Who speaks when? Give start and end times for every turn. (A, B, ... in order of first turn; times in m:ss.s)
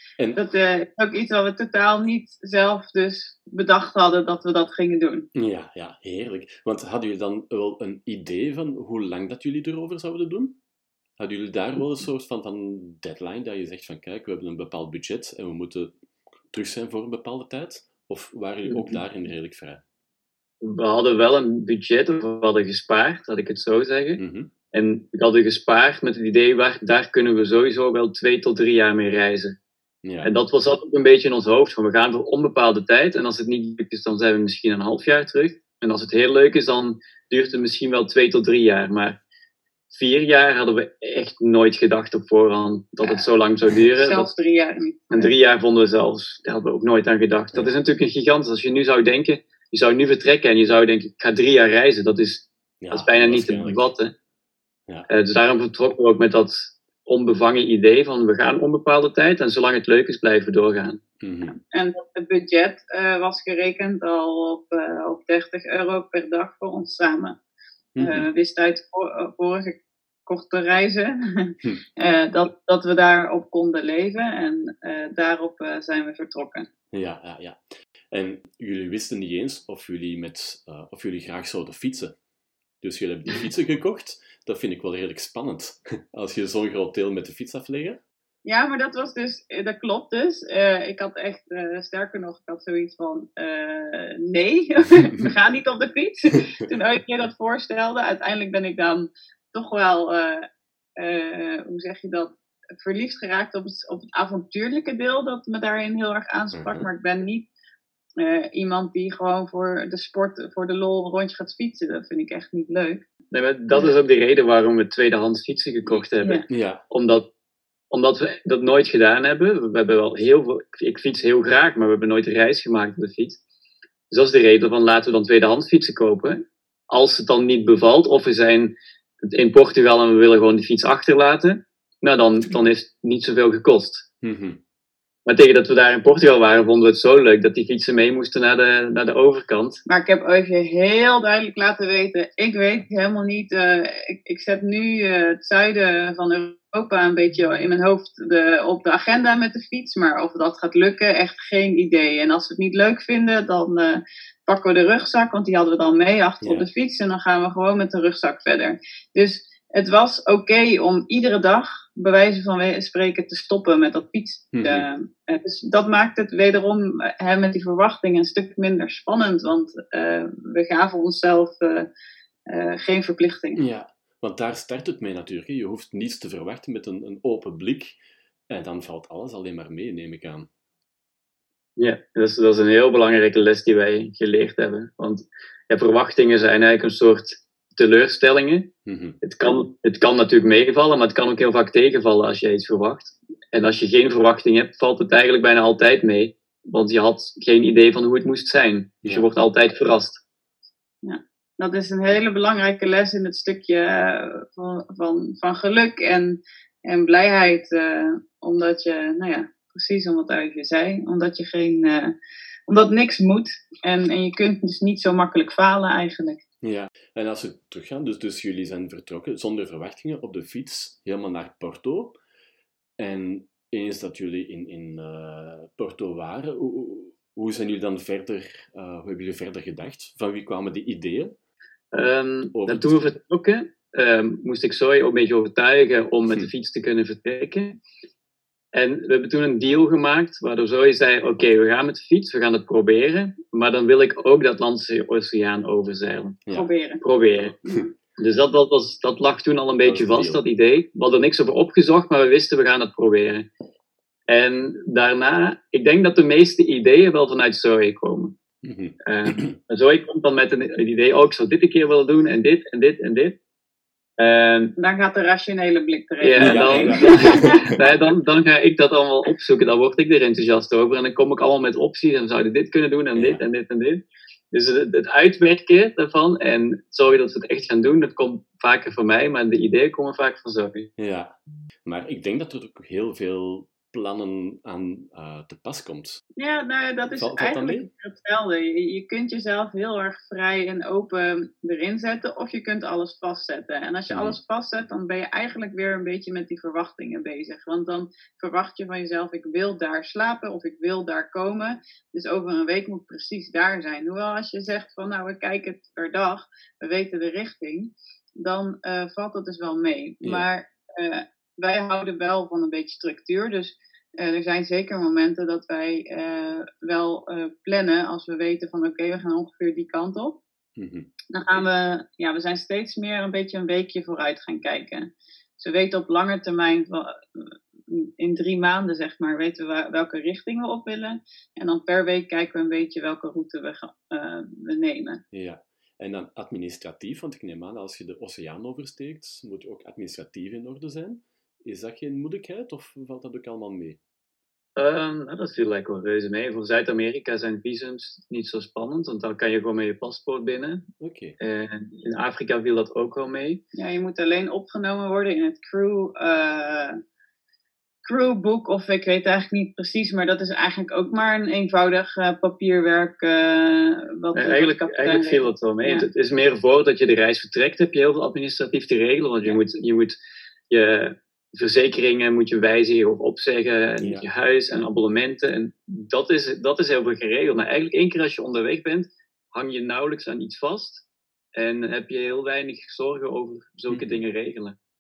0:00.4-0:05.3 A
0:05.3-0:10.6 B
0:11.2-0:15.9 B
0:16.5-0:19.8 B
0:18.7-0:19.0 C
0:20.6-0:24.2 C
0:24.2-0:24.5 B
0:24.7-0:29.6 C
0:30.0-0:30.3 B
0:30.2-0:39.2 C
0:39.9-0:44.3 C
0:43.0-0:43.3 A
0:44.0-0:45.3 A
0:45.1-0:54.1 C
0:52.8-0:53.9 B
0:55.1-1:01.0 C
1:01.2-1:01.6 B
1:01.7-1:07.4 A
1:08.0-1:08.3 B
1:08.0-1:16.7 A
1:16.9-1:22.2 B
1:22.8-1:28.0 B
1:28.4-1:40.4 A
1:41.0-1:47.5 A
1:46.5-1:46.9 B
1:48.2-1:53.0 A
1:53.3-1:57.3 C
1:55.9-1:56.4 A
1:56.5-1:56.8 B
1:57.9-2:03.4 C
2:04.1-2:14.1 C
2:12.4-2:12.7 B
2:14.2-2:14.6 B
2:15.3-2:19.8 C
2:19.9-2:51.9 A
2:36.4-2:36.7 B
2:44.5-2:44.9 B
2:52.5-2:53.6 A
2:53.6-2:58.0 B
2:58.5-3:00.5 B
3:01.8-3:08.7 C
3:08.9-3:09.2 B
3:09.2-3:20.2 C
3:21.0-3:32.1 A
3:32.7-3:36.4 A
3:36.6-3:42.2 B
3:43.0-3:51.4 B
3:51.9-3:57.8 C
3:52.5-3:53.1 B
3:58.7-4:06.4 C
4:06.5-4:07.0 A
4:07.0-4:07.6 C
4:08.2-4:13.5 C
4:09.8-4:10.4 B
4:14.3-4:18.4 C
4:18.6-4:19.6 B
4:19.0-4:23.4 C
4:24.2-4:24.7 C
4:24.8-4:27.8 A
4:26.2-4:40.9 C
4:26.4-4:27.8 B
4:33.2-4:33.4 B
4:41.0-4:41.3 B
4:41.8-4:46.2 B
4:46.4-5:20.4 A
4:47.1-4:47.9 B
4:54.1-4:54.4 B
5:20.8-5:21.1 B
5:21.3-5:35.2 A
5:35.3-5:44.0 B
5:44.8-5:50.9 C
5:51.0-5:51.4 B
5:51.4-5:53.6 C
5:53.8-5:57.0 A
5:58.0-6:06.1 A
6:04.4-6:10.2 C
6:10.7-6:24.8 C
6:14.0-6:14.3 B
6:23.9-6:24.2 B